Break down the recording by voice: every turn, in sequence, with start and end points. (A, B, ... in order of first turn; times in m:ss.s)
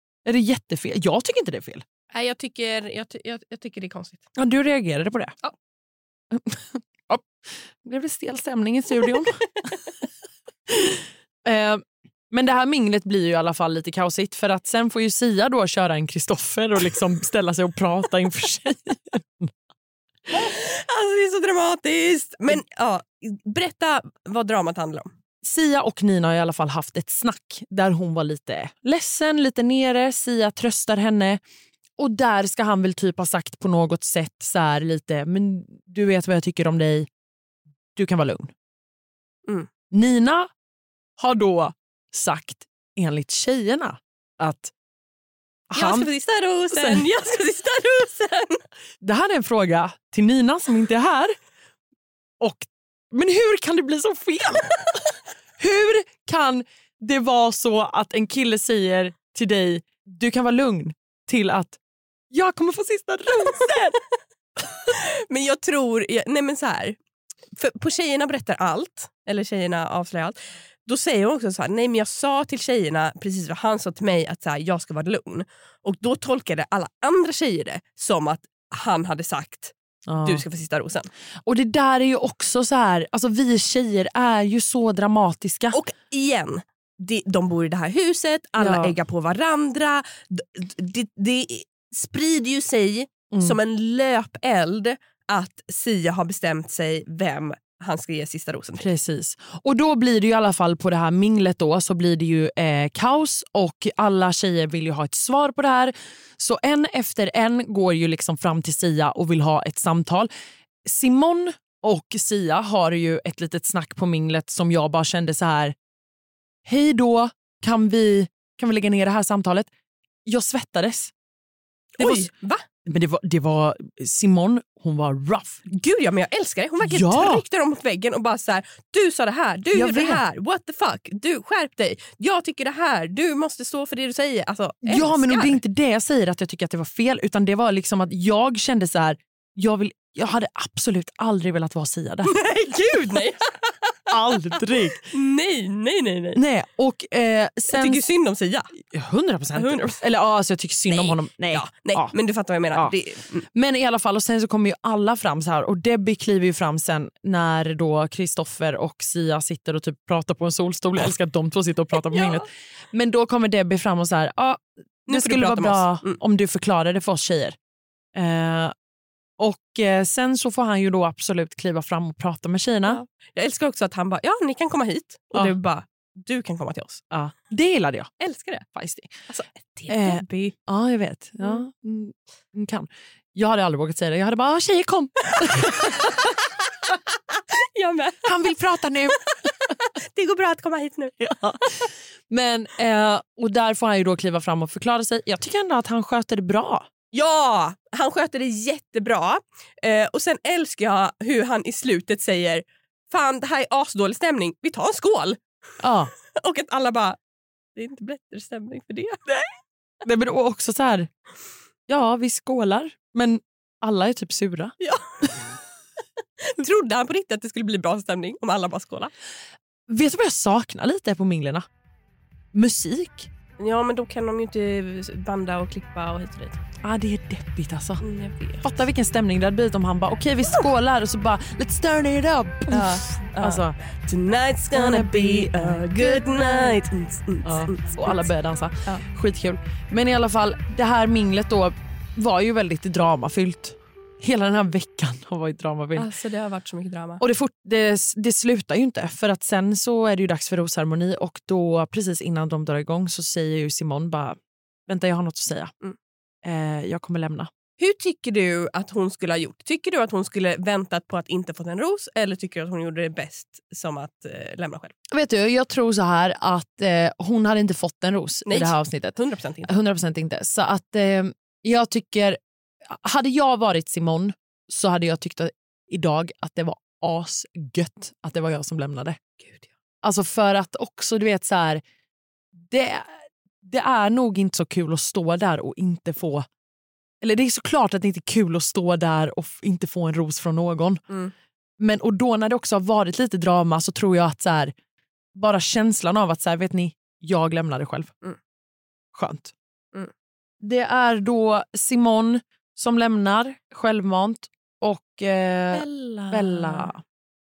0:00.2-0:01.8 A
0:02.1-0:04.3 B
0:04.4-0:05.4 A
0:06.3-0:09.4 A
0:10.7-0:19.5 A
0:20.3-0:25.1 B
0:25.4-0:31.4 A
0:32.0-0:37.1 A
0:38.0-0:38.5 A
0:39.9-0:40.5 A
0:41.2-0:44.7 A
0:45.7-0:46.1 A
0:45.8-0:48.6 B
0:46.7-0:47.1 A
0:49.0-0:51.4 A
0:52.4-0:54.7 A
0:55.6-1:01.8 A
1:02.3-1:04.0 A
1:04.9-1:07.0 B
1:07.6-1:21.1 B
1:20.1-1:20.4 A
1:21.5-1:25.8 A
1:25.7-1:38.9 B
1:28.6-1:29.0 A
1:38.8-1:50.3 A
1:50.8-1:55.8 A
1:56.6-1:59.7 A
2:00.3-2:01.1 A
2:02.0-2:02.6 B
2:02.0-2:02.3 A
2:02.8-2:05.6 A
2:05.7-2:15.6 B
2:06.8-2:07.4 A
2:09.7-2:10.2 A
2:14.8-2:22.4 A
2:22.2-2:24.0 B
2:24.1-2:25.1 A
2:25.1-2:26.4 B
2:26.4-2:28.0 A
2:27.7-2:28.7 B
2:28.8-2:32.2 A
2:29.6-2:30.0 B
2:30.9-2:33.5 B
2:33.6-2:47.6 A
2:42.1-2:42.4 B
2:45.1-2:46.2 B
2:48.2-2:48.7 A
2:49.4-2:53.0 A
2:52.9-2:57.0 B
2:57.1-2:58.1 A
2:58.2-2:58.7 B
2:58.7-2:59.2 A
2:59.3-3:00.5 B
2:59.9-3:06.1 A
3:06.0-3:06.3 B
3:07.8-3:08.3 B
3:08.2-3:09.3 A
3:10.0-3:11.2 B
3:11.2-3:16.9 A
3:17.1-3:25.4 B
3:25.8-3:26.1 A
3:26.4-3:27.2 B
3:27.8-3:29.2 B
3:30.0-3:31.1 A
3:31.9-3:34.8 A
3:34.8-3:35.4 B
3:36.4-3:39.1 B
3:39.9-3:41.7 A
3:42.5-3:43.3 A
3:43.6-3:46.6 B
3:46.8-3:48.0 A
3:48.0-3:48.7 B
3:48.6-3:53.8 A
3:52.7-3:58.3 B
3:54.7-3:56.8 A
3:57.4-4:06.1 A
4:06.0-4:07.2 B
4:07.2-4:15.7 A
4:16.4-4:17.5 A
4:17.8-4:24.9 B
4:25.1-4:39.2 A
4:28.5-4:29.7 B
4:39.4-4:39.7 B
4:40.0-4:41.8 A
4:42.6-4:46.5 A
4:47.2-4:51.0 A
4:51.8-4:54.7 A
4:55.4-4:58.1 A
4:59.1-4:59.5 A
5:00.6-5:07.0 A
5:05.7-5:06.9 B